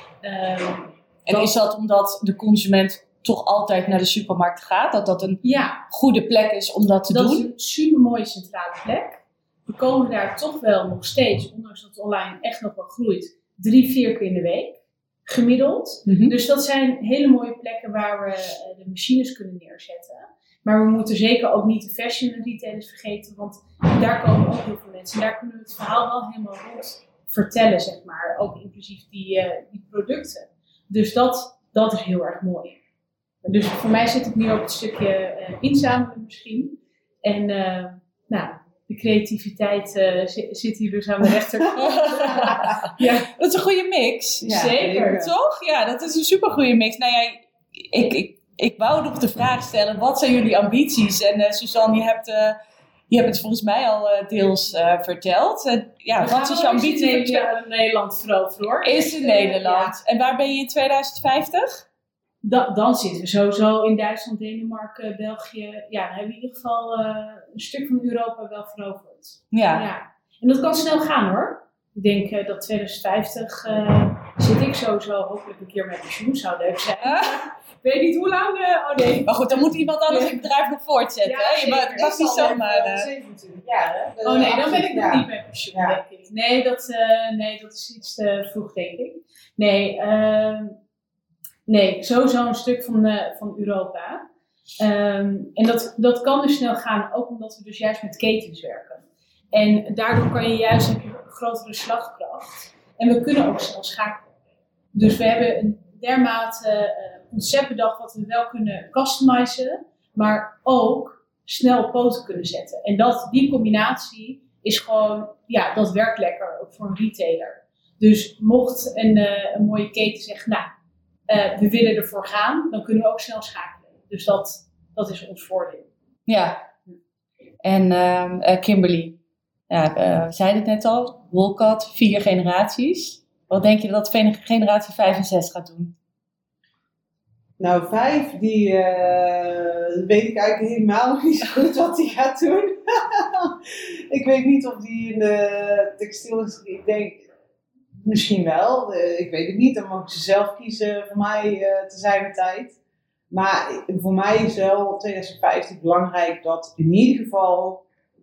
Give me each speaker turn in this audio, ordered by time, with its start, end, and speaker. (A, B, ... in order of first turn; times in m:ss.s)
0:00.2-0:01.5 A
0:01.3-0:07.5 B
0:05.4-0:05.8 A
0:07.1-0:32.8 A
0:16.1-0:16.3 B
0:33.4-0:43.3 A
0:41.8-0:52.6 B
0:42.2-0:42.8 C
0:44.4-0:45.3 C
0:44.4-0:45.2 A
0:53.1-0:57.5 B
0:56.2-1:00.0 A
0:58.8-1:01.8 B
1:02.4-1:20.5 A
1:09.5-1:09.9 B
1:17.0-1:17.4 B
1:19.2-1:23.1 B
1:21.2-1:22.1 A
1:21.9-1:26.0 C
1:24.2-1:30.8 A
1:31.7-1:34.2 A
1:34.8-1:44.3 A
1:44.9-2:00.7 A
2:01.3-2:05.9 A
2:06.3-2:06.6 B
2:07.6-2:09.2 B
2:09.7-2:15.9 B
2:17.6-2:27.2 C
2:28.0-2:32.8 C
2:33.3-2:37.8 C